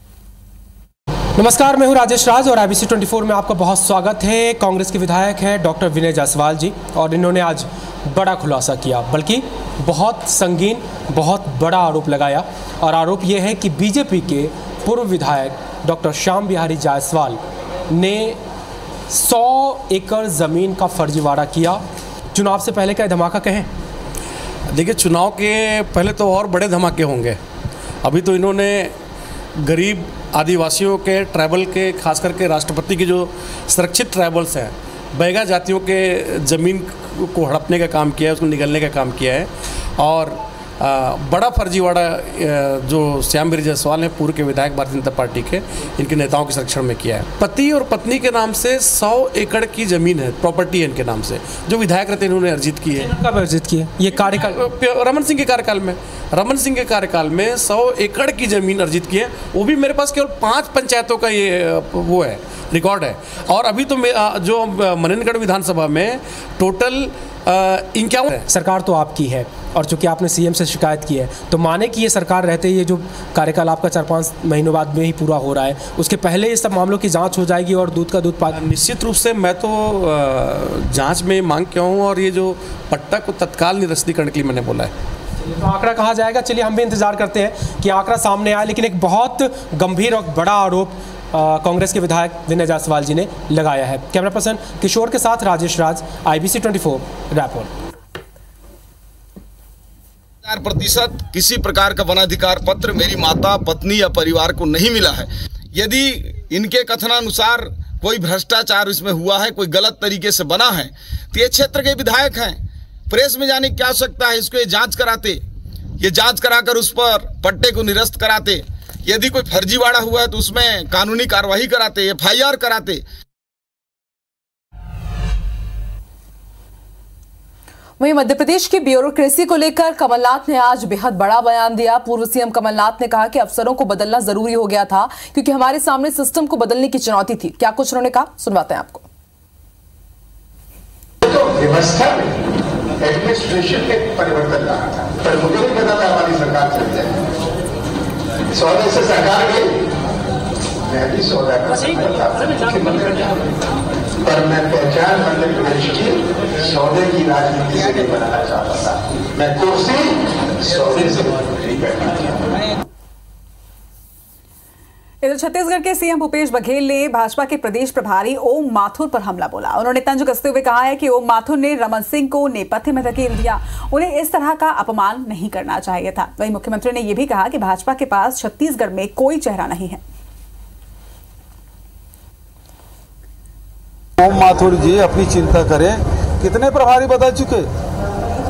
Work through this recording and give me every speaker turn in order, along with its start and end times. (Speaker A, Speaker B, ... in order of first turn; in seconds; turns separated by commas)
Speaker A: 1.4-18.4, Speaker A: 19.1-21.8, Speaker A: 22.3-23.7, Speaker B: 24.7-27.4, Speaker B: 28.0-28.9, Speaker B: 29.6-53.1, Speaker A: 53.0-54.5, Speaker B: 54.1-68.5, Speaker A: 68.5-78.6, Speaker B: 78.5-84.9, Speaker A: 85.4-97.7, Speaker C: 100.4-115.4, Speaker C: 116.0-123.0, Speaker D: 128.0-139.0, Speaker E: 141.2-142.3, Speaker E: 143.0-147.1, Speaker E: 148.6-149.6, Speaker E: 150.9-153.3, Speaker E: 154.3-160.1, Speaker E: 160.6-162.3, Speaker F: 165.2-180.0, Speaker G: 184.2-187.7